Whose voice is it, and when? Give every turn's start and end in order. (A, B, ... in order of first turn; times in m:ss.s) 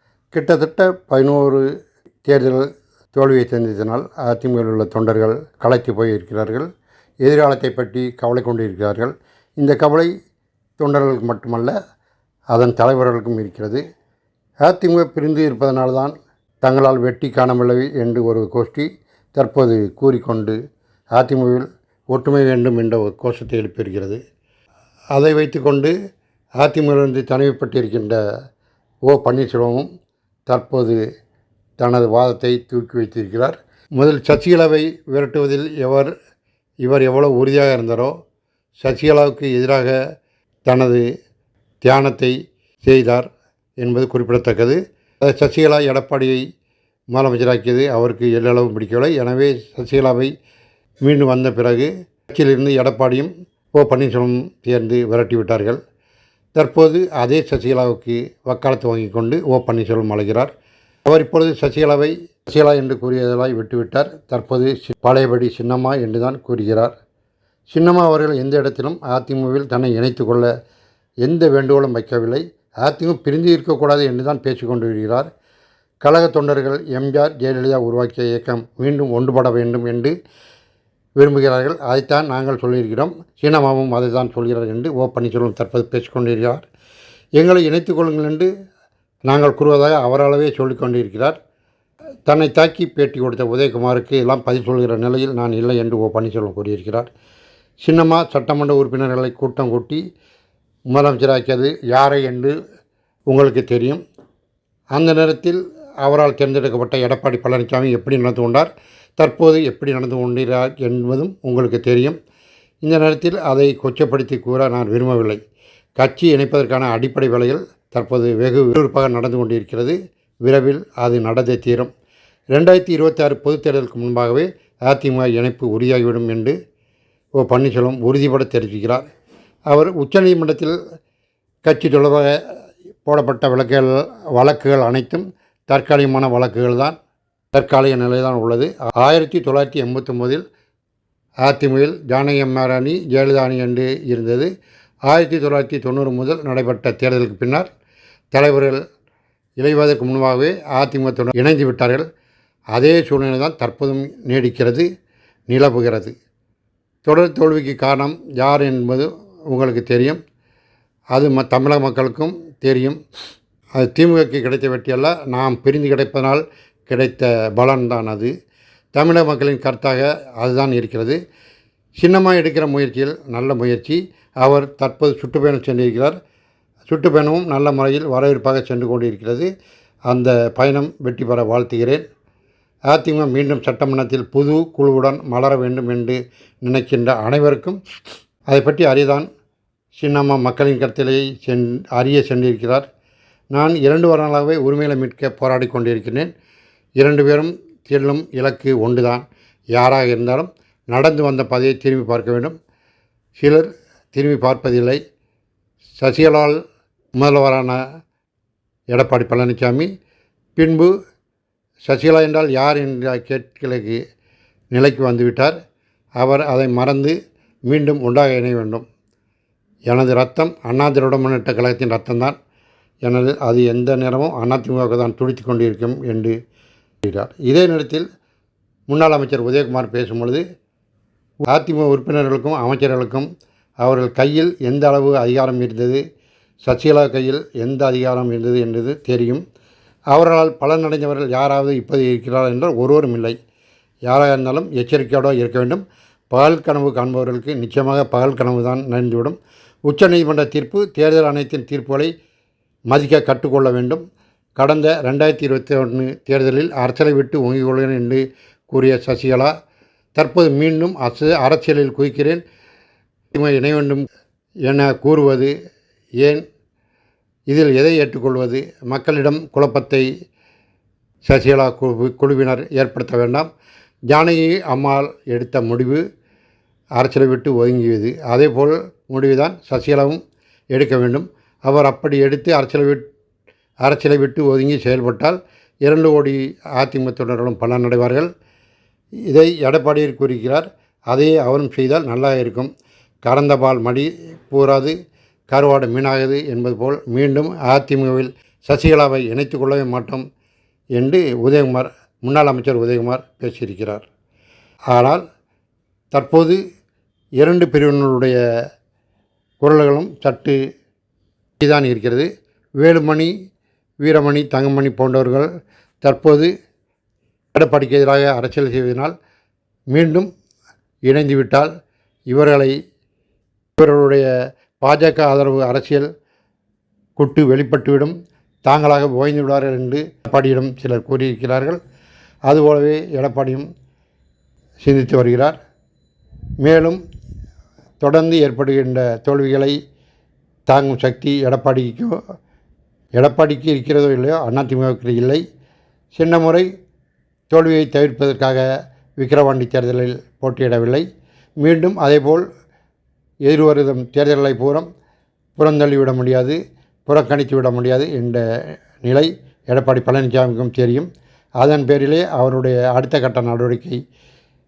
0:00.3-0:01.6 A
0:02.2-0:06.7 A
0:07.2-0:10.1 A
0:10.8-0:11.7 A
0:12.5-0:13.8 A
0:14.6-0:20.6 A
0:21.1-0:24.2 A
0:25.1-0:25.9 A
0:26.6-0:28.2 A
0:29.0-0:29.9 A
0:30.5-0:31.0 A
0:31.8-0:36.1 A
0:36.8-0:38.1 A
0:38.8-0:40.0 A
0:40.6-0:41.0 A
0:41.8-0:43.3 A
0:43.8-0:46.4 A
0:47.1-0:50.3 A
0:51.0-0:55.8 A
0:56.5-1:00.5 A
1:01.0-1:06.9 A
1:07.7-1:10.5 A
1:11.2-1:15.3 A
1:16.0-1:20.1 A
1:21.2-1:26.6 A
1:27.4-1:28.5 A
1:29.3-1:31.4 A
1:32.3-1:37.1 A
1:37.8-1:40.0 A
1:40.9-1:42.5 A
1:43.3-1:44.0 A
1:44.9-1:52.2 A
1:52.8-1:55.4 A
1:56.0-2:01.9 A
2:02.5-2:06.5 A
2:07.4-2:09.1 A
2:09.7-2:10.8 A
2:11.6-2:12.4 A
2:13.0-2:17.0 A
2:17.5-2:20.4 A
2:21.4-2:24.5 A
2:25.1-2:27.7 A
2:28.3-2:28.8 A
2:29.6-2:32.0 A
2:32.7-2:34.8 A
2:35.5-2:36.1 A
2:37.0-2:40.2 A
2:41.1-2:43.0 A
2:43.8-2:48.3 A
2:48.9-2:51.2 A
2:52.0-2:56.2 A
2:56.9-2:59.5 A
3:00.1-3:02.0 A
3:02.9-3:07.8 A
3:08.5-3:09.3 A
3:10.0-3:12.9 A
3:13.5-3:16.3 A
3:17.0-3:22.5 A
3:23.4-3:25.0 A
3:26.0-3:26.6 A
3:27.1-3:27.8 A
3:28.9-3:29.9 A
3:30.6-3:30.9 A
3:31.8-3:34.0 A
3:34.7-3:35.6 A
3:36.2-3:37.1 A
3:37.7-3:38.8 A
3:39.9-3:42.4 A
3:43.0-3:46.3 A
3:47.0-3:48.0 A
3:48.9-3:50.4 A
3:51.5-3:53.3 A
3:53.8-3:56.0 A
3:56.6-3:59.4 A
4:00.1-4:03.4 A
4:04.1-4:12.1 A
4:12.9-4:14.0 A
4:14.6-4:19.5 A
4:20.2-4:22.4 A
4:23.3-4:24.0 A
4:24.6-4:25.5 A
4:27.5-4:30.1 A
4:31.2-4:33.5 A
4:34.1-4:36.0 A
4:37.0-4:40.2 A
4:40.7-4:43.0 A
4:43.8-4:48.3 A
4:49.3-4:52.7 A
4:53.2-4:54.9 A
4:55.5-5:00.2 A
5:01.0-5:04.1 A
5:04.9-5:05.2 A
5:06.1-5:06.6 A
5:07.4-5:08.4 A
5:09.6-5:10.6 A
5:11.6-5:12.3 A
5:12.8-5:13.3 A
5:14.0-5:15.5 A
5:16.0-5:16.5 A
5:17.5-5:19.1 A
5:19.9-5:20.3 A
5:21.1-5:21.7 A
5:22.3-5:22.7 A
5:23.8-5:24.3 A
5:24.8-5:26.1 A
5:27.2-5:28.1 A
5:28.6-5:31.8 A
5:32.5-5:33.7 A
5:34.8-5:35.6 A
5:36.6-5:37.0 A
5:38.0-5:39.7 A
5:40.7-5:42.2 A
5:43.2-5:45.4 A
5:46.1-5:46.7 A
5:47.5-5:48.6 A
5:49.2-5:51.0 A
5:51.6-5:52.4 A
5:53.5-5:54.9 A
5:55.6-5:58.4 A
5:59.0-6:01.1 A
6:01.6-6:04.0 A